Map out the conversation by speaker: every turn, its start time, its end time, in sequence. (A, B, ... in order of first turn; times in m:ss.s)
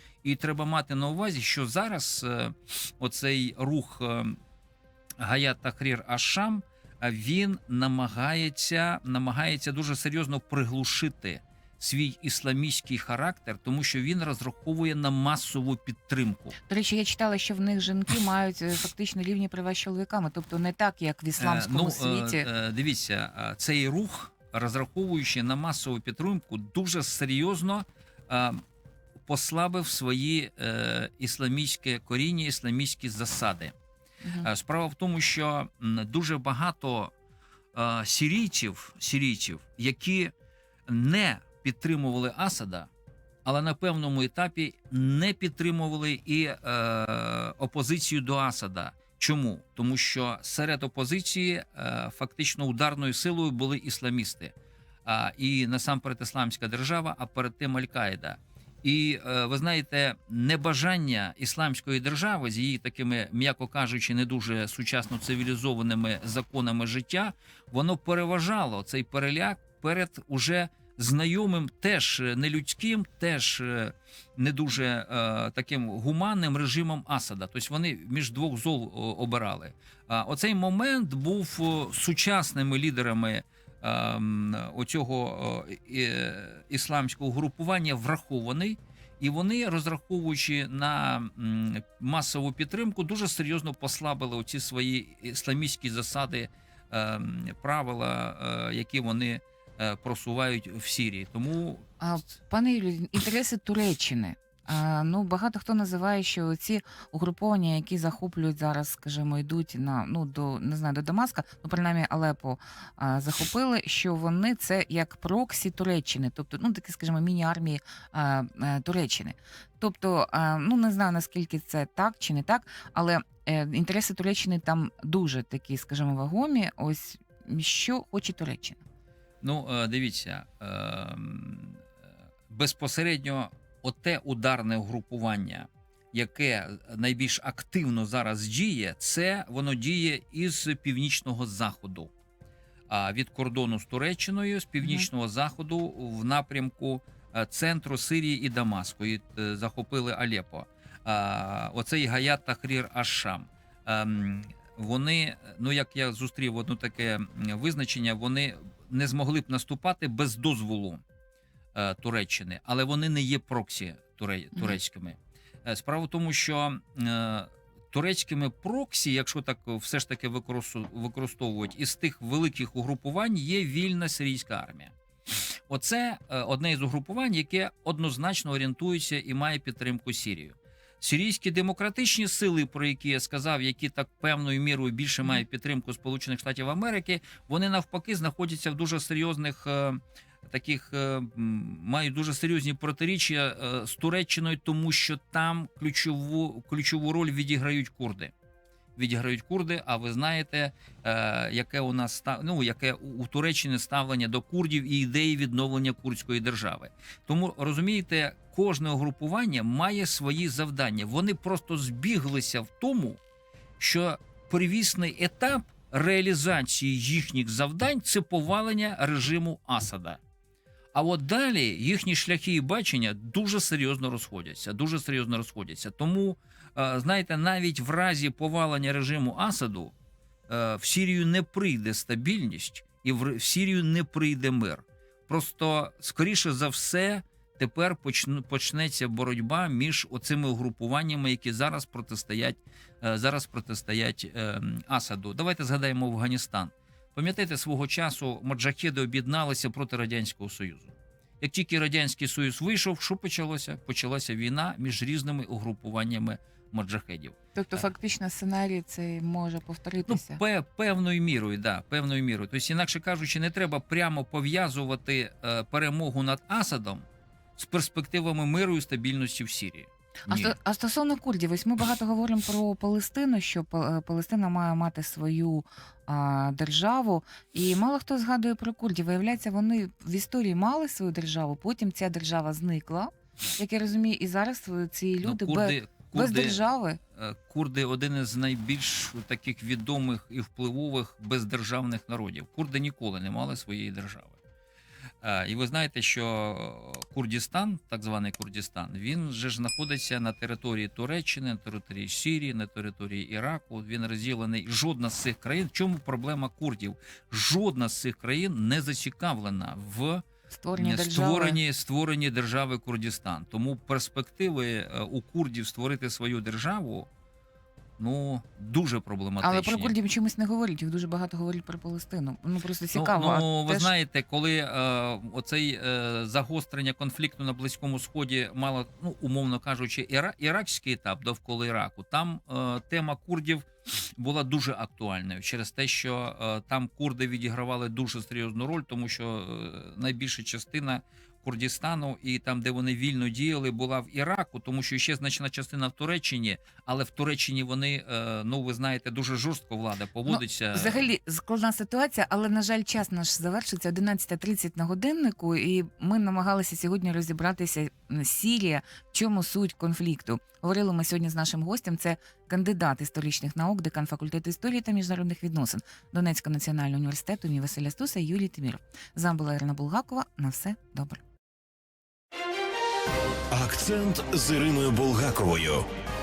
0:00.2-0:04.4 A
0:05.2-0:16.6 A
0:16.7-0:22.5 B
0:21.4-0:28.6 A
0:29.2-0:33.7 A
0:34.4-0:37.1 A
0:37.7-0:40.3 A
0:40.9-0:42.9 A
0:43.4-0:54.5 A
0:55.0-1:41.8 A
1:42.0-2:08.8 B
2:09.4-2:11.8 A
2:12.5-2:22.1 A
2:22.9-2:41.0 A
2:41.7-2:54.9 A
2:55.7-3:18.3 A
3:19.0-3:33.2 A
3:33.8-3:40.2 A
3:40.9-3:49.9 A
3:50.5-4:17.8 A
4:17.6-4:20.4 B
4:20.1-4:30.6 A
4:30.3-4:47.0 B
4:45.2-4:46.6 A
4:47.1-4:54.4 A
4:55.2-5:10.2 A
5:10.5-5:11.6 B
5:10.7-5:17.1 A
5:18.0-5:19.9 A
5:19.4-5:23.9 B
5:22.9-5:33.6 A
5:34.2-5:51.0 A
5:50.3-6:11.2 B
6:13.5-6:15.9 C